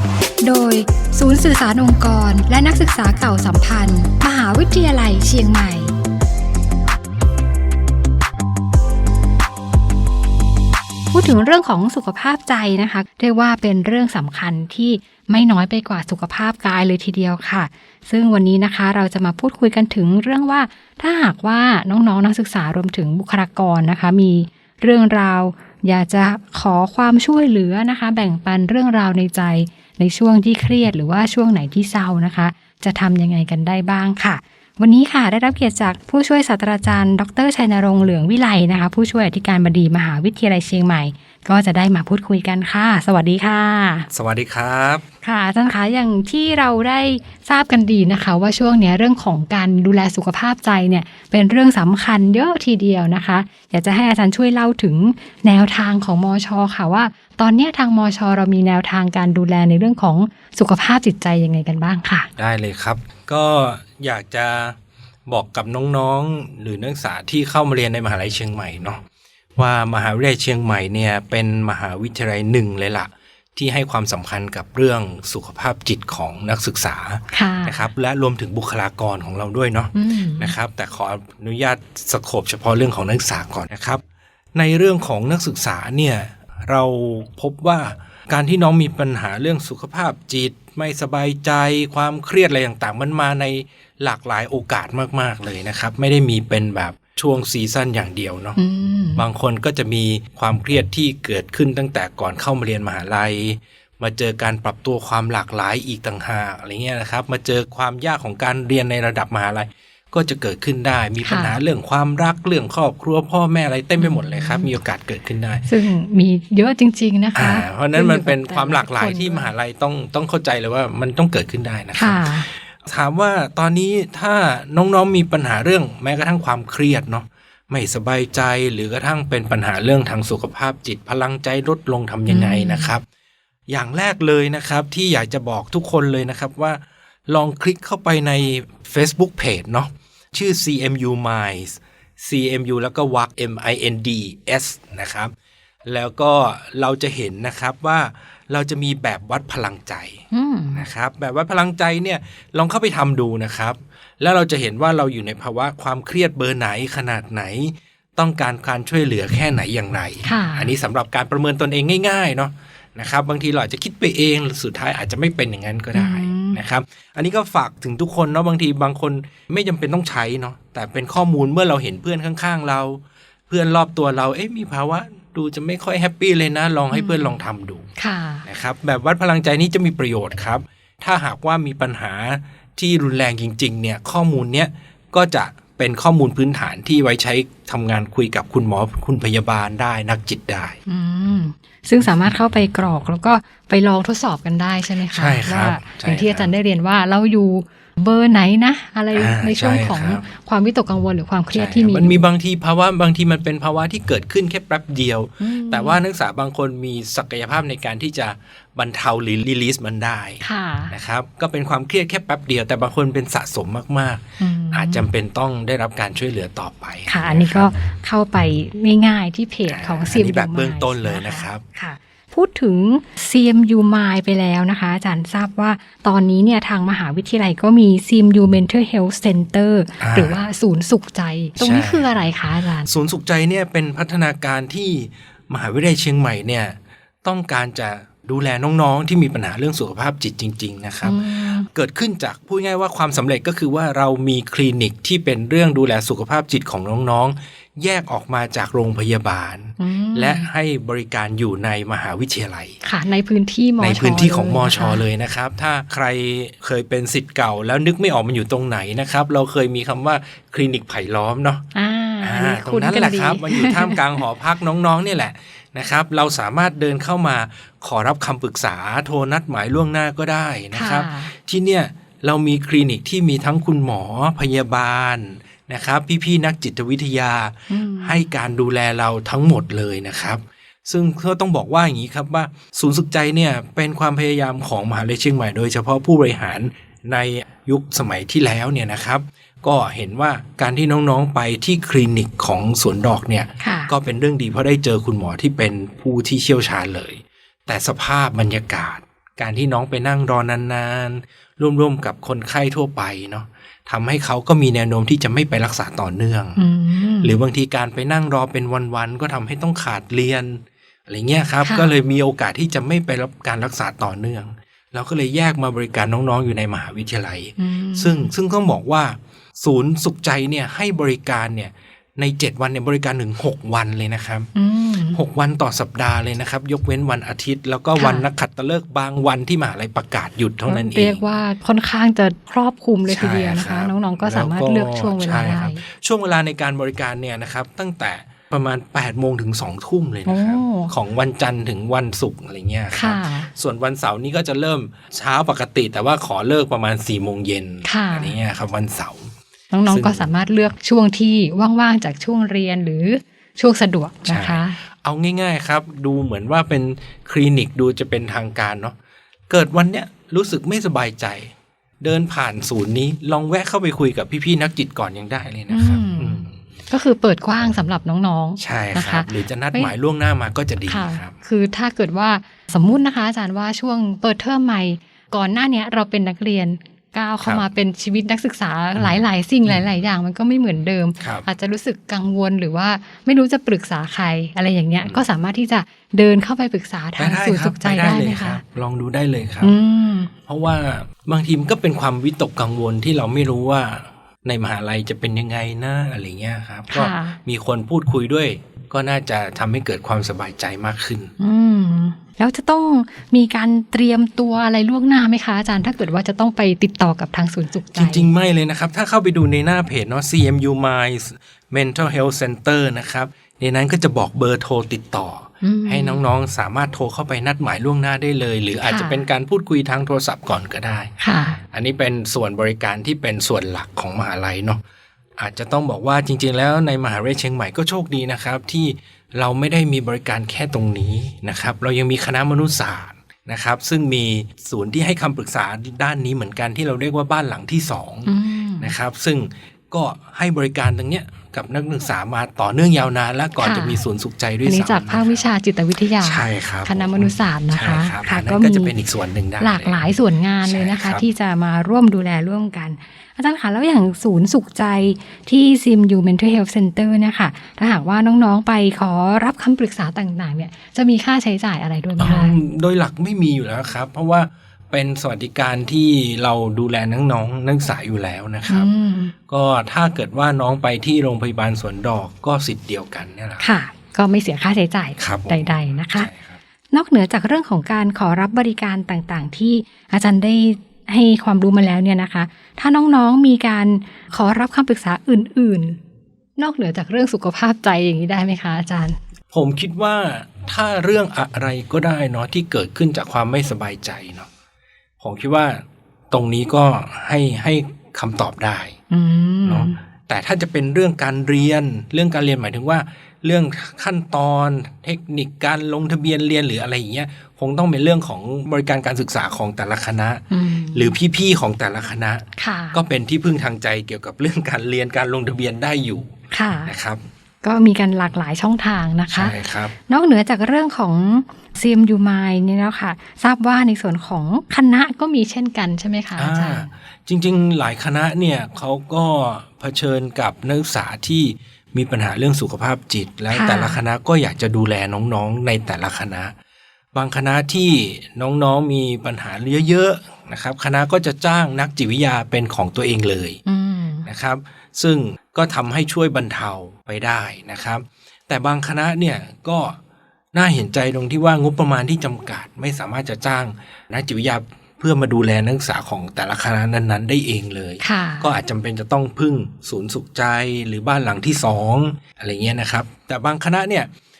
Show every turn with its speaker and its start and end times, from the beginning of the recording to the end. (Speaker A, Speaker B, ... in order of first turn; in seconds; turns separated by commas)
Speaker A: 0.4-5.9, Speaker A: 11.1-44.1, Speaker B: 44.1-45.0, Speaker A: 45.2-62.3, Speaker B: 62.4-64.8, Speaker B: 65.3-69.0, Speaker B: 69.6-84.0, Speaker A: 77.3-77.9, Speaker A: 80.0-80.5, Speaker B: 84.6-98.6, Speaker A: 98.6-99.2, Speaker B: 99.2-115.7, Speaker A: 111.2-111.6, Speaker A: 114.0-114.7, Speaker A: 115.7-119.5, Speaker B: 117.3-133.0, Speaker A: 122.0-122.5, Speaker A: 132.3-132.9, Speaker B: 133.7-145.3, Speaker B: 145.9-177.9, Speaker A: 150.3-150.9, Speaker A: 160.2-160.7, Speaker A: 165.9-166.6, Speaker A: 176.9-177.4, Speaker A: 178.0-178.5, Speaker B: 178.4-190.8, Speaker A: 190.9-202.2, Speaker B: 195.1-196.5, Speaker B: 199.1-200.2, Speaker B: 201.5-217.7, Speaker A: 205.4-206.0, Speaker A: 210.4-211.0, Speaker A: 214.4-215.1, Speaker A: 217.1-232.9, Speaker B: 219.7-221.6, Speaker B: 230.0-230.4, Speaker B: 231.6-232.2, Speaker B: 232.8-252.8, Speaker A: 241.0-241.7, Speaker A: 249.8-250.5, Speaker A: 252.8-255.1, Speaker B: 253.8-261.6, Speaker A: 261.7-264.1, Speaker B: 262.2-306.6, Speaker A: 270.7-271.3, Speaker A: 277.7-278.2, Speaker A: 293.6-293.9, Speaker A: 306.6-307.4, Speaker B: 307.2-324.5, Speaker A: 311.6-311.9, Speaker A: 317.6-318.3, Speaker A: 324.6-325.2, Speaker B: 325.1-331.2, Speaker A: 327.9-328.3, Speaker A: 330.6-335.8, Speaker B: 333.1-349.3, Speaker A: 340.2-340.9, Speaker A: 342.9-343.5, Speaker A: 347.8-348.4, Speaker A: 349.7-354.8, Speaker B: 349.9-350.3, Speaker B: 354.3-359.0, Speaker B: 359.5-366.5, Speaker A: 365.7-369.9, Speaker B: 368.6-371.3, Speaker A: 370.9-388.6, Speaker B: 379.0-379.9, Speaker B: 381.2-381.5, Speaker B: 387.2-389.8, Speaker A: 389.6-390.3, Speaker B: 390.4-401.3, Speaker A: 396.9-397.4, Speaker A: 401.4-408.3, Speaker B: 407.9-421.1, Speaker A: 415.6-416.2, Speaker A: 418.8-419.2, Speaker A: 421.2-421.6, Speaker B: 421.7-424.8, Speaker B: 425.4-445.5, Speaker A: 438.3-438.9, Speaker A: 443.6-444.0, Speaker A: 444.6-448.9, Speaker B: 446.2-450.1, Speaker A: 449.6-462.6, Speaker B: 450.6-451.2, Speaker B: 462.2-468.9, Speaker A: 468.7-469.3, Speaker B: 469.5-473.6, Speaker A: 473.6-476.3, Speaker B: 475.2-476.6, Speaker A: 476.9-486.0, Speaker A: 486.6-489.2, Speaker B: 489.5-494.5, Speaker B: 495.2-499.0, Speaker A: 499.1-500.0, Speaker B: 499.6-516.3, Speaker A: 510.5-511.2, Speaker A: 512.6-513.0, Speaker A: 516.5-516.9, Speaker B: 516.9-517.2, Speaker A: 517.6-526.9, Speaker B: 519.3-519.9, Speaker B: 526.4-536.5, Speaker A: 533.5-534.0, Speaker B: 537.1-543.6, Speaker A: 543.6-544.3, Speaker B: 544.3-550.0, Speaker B: 550.5-564.1, Speaker A: 558.0-558.5